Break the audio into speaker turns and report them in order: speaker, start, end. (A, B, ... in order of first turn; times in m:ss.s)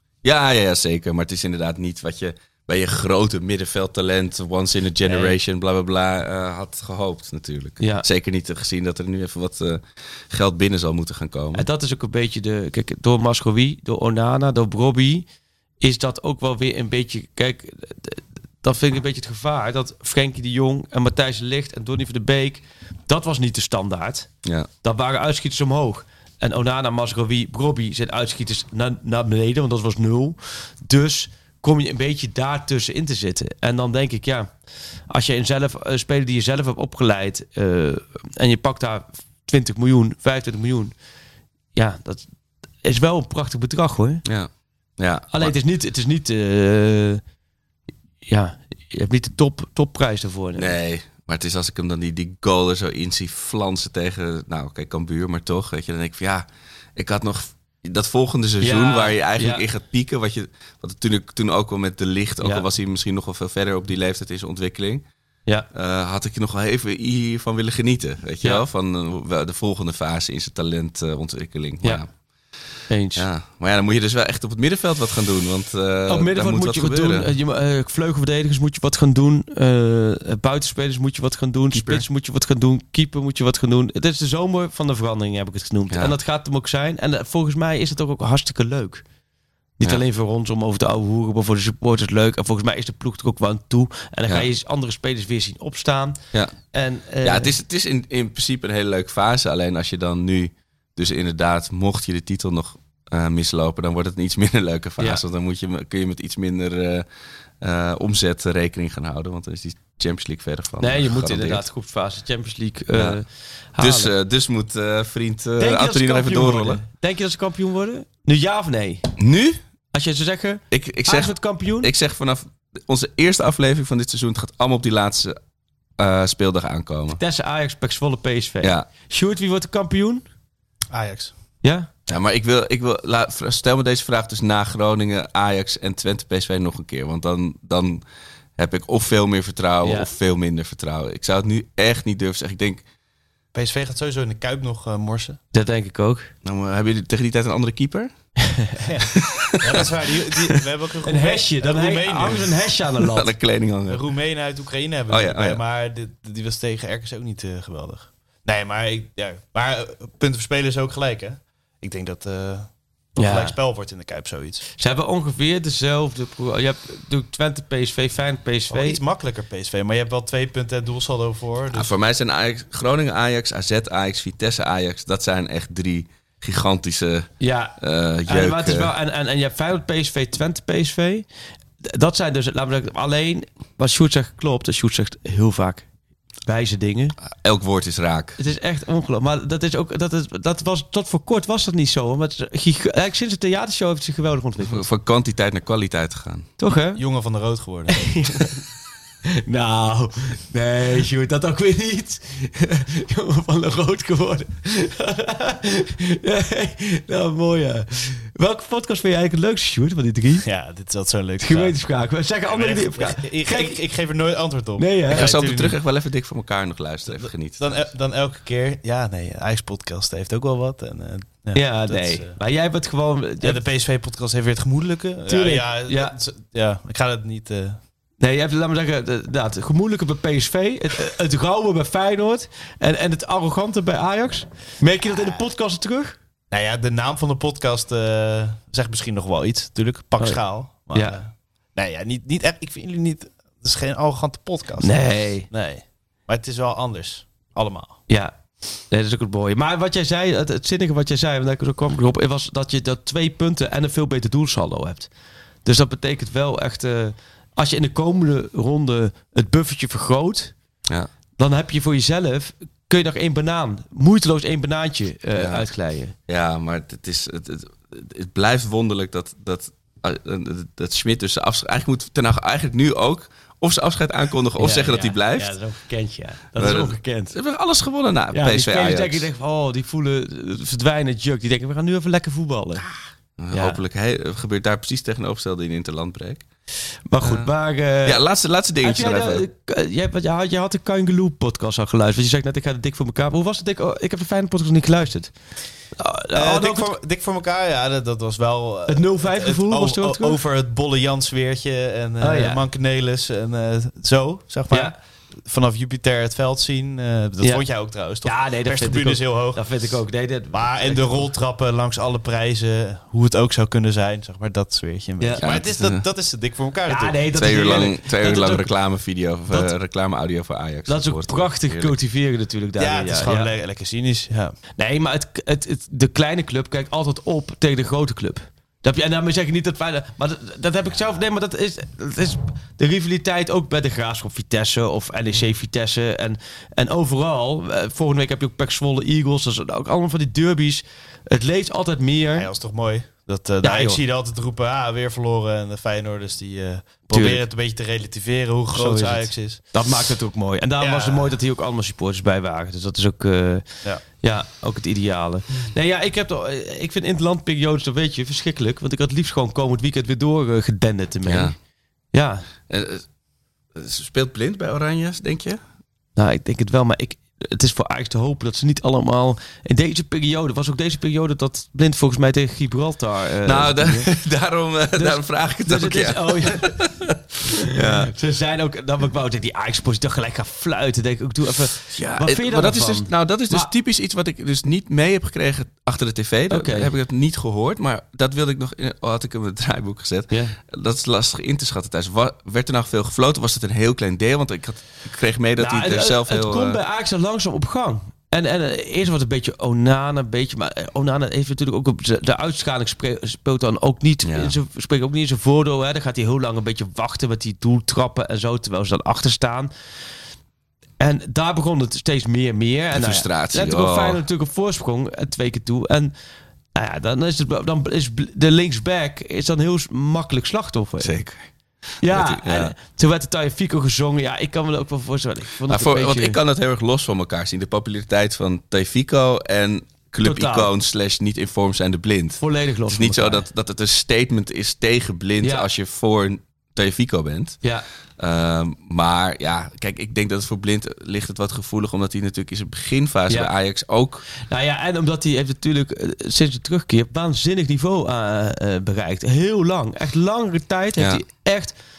0:00.2-0:11.6 A
0:05.0-0:05.3 B
0:07.8-0:08.0 B
0:11.5-0:15.2 B
0:15.8-0:24.3 B
0:24.8-0:34.5 B
0:35.1-0:40.9 B
0:41.7-0:42.2 B
0:42.8-0:44.2 B
0:44.2-0:45.5 A
0:45.3-0:47.2 B
0:48.2-0:50.7 B
0:50.6-1:05.0 A
0:58.6-0:59.6 B
1:05.7-1:12.1 A
1:12.9-1:13.2 B
1:13.1-1:17.3 A
1:16.1-1:29.0 B
1:21.7-1:22.0 A
1:29.8-1:36.2 B
1:36.7-1:37.5 B
1:37.2-1:47.0 A
1:47.6-1:51.6 A
1:50.8-1:54.1 B
1:53.8-1:56.8 A
1:55.6-1:59.0 B
1:59.2-1:59.6 A
1:59.9-2:01.9 B
2:00.7-2:05.4 A
2:06.0-2:07.2 A
2:07.2-2:10.2 B
2:08.6-2:08.9 A
2:10.9-2:11.3 C
2:11.6-2:11.9 B
2:12.1-2:18.0 A
2:18.6-2:22.8 A
2:19.8-2:20.1 B
2:23.5-2:25.4 C
2:25.5-2:26.3 B
2:26.4-2:28.1 A
2:28.8-2:32.7 C
2:29.3-2:29.8 A
2:31.0-2:33.3 B
2:33.1-2:34.0 A
2:33.9-2:44.7 C
2:35.1-2:35.6 A
2:43.2-2:43.6 B
2:44.8-2:49.0 B
2:48.7-2:51.9 C
2:51.7-2:58.9 A
2:57.4-3:01.2 B
3:01.8-3:05.8 B
3:06.4-3:07.2 B
3:07.2-3:08.4 A
3:08.4-3:14.9 B
3:14.6-3:16.5 A
3:16.6-3:17.0 B
3:16.9-3:18.1 C
3:18.0-3:18.5 B
3:19.4-3:30.4 B
3:30.4-3:31.7 C
3:31.4-3:33.8 B
3:32.5-3:35.8 C
3:34.8-3:35.3 B
3:35.1-3:37.6 A
3:37.1-3:42.4 C
3:41.5-3:43.6 B
3:43.4-3:47.8 C
3:45.3-3:46.1 B
3:48.2-3:56.2 B
3:56.5-4:08.0 C
4:00.2-4:01.2 B
4:04.8-4:05.5 B
4:08.1-4:08.3 B
4:08.9-4:15.1 B
4:15.6-4:20.5 B
4:21.4-4:26.1 B
4:25.3-4:25.7 A
4:26.3-4:35.5 A
4:34.6-4:37.3 B
4:36.6-4:39.3 A
4:38.3-4:42.8 B
4:43.4-4:46.4 A
4:43.5-4:43.8 B
4:47.1-4:48.2 B
4:47.2-4:47.5 A
4:48.0-4:49.4 A
4:48.8-4:55.3 B
4:56.0-4:57.0 B
4:56.3-5:09.6 C
4:58.9-5:00.4 B
5:02.2-5:02.6 B
5:04.7-5:04.9 B
5:08.2-5:11.3 B
5:10.5-5:17.2 C
5:15.4-5:16.0 A
5:16.9-5:18.7 B
5:17.3-5:22.0 A
5:20.9-5:23.5 B
5:22.8-5:24.6 C
5:24.8-5:42.5 B
5:42.3-5:49.6 C
5:43.6-5:44.0 B
5:47.1-5:47.4 B
5:48.7-5:53.6 B
5:50.8-5:51.3 C
5:54.2-6:01.5 B
6:01.2-6:01.6 A
6:02.1-6:02.4 B
6:02.7-6:03.0 A
6:03.7-6:05.6 A
6:06.2-6:14.1 B
6:13.4-6:18.1 A
6:14.9-6:16.8 B
6:17.8-6:23.7 B
6:21.9-6:36.8 A
6:26.5-6:26.9 B
6:30.3-6:30.6 B
6:35.6-6:49.7 B
6:44.2-6:44.5 A
6:51.0-6:56.1 B
6:52.9-6:54.2 A
6:56.8-7:01.1 B
7:01.0-7:01.5 A
7:02.0-7:06.4 B
7:02.0-7:02.7 A
7:05.7-7:17.6 A
7:10.2-7:10.7 B
7:12.4-7:13.4 B
7:15.4-7:15.7 B
7:18.2-7:24.2 A
7:24.4-7:31.7 B
7:31.0-7:31.2 A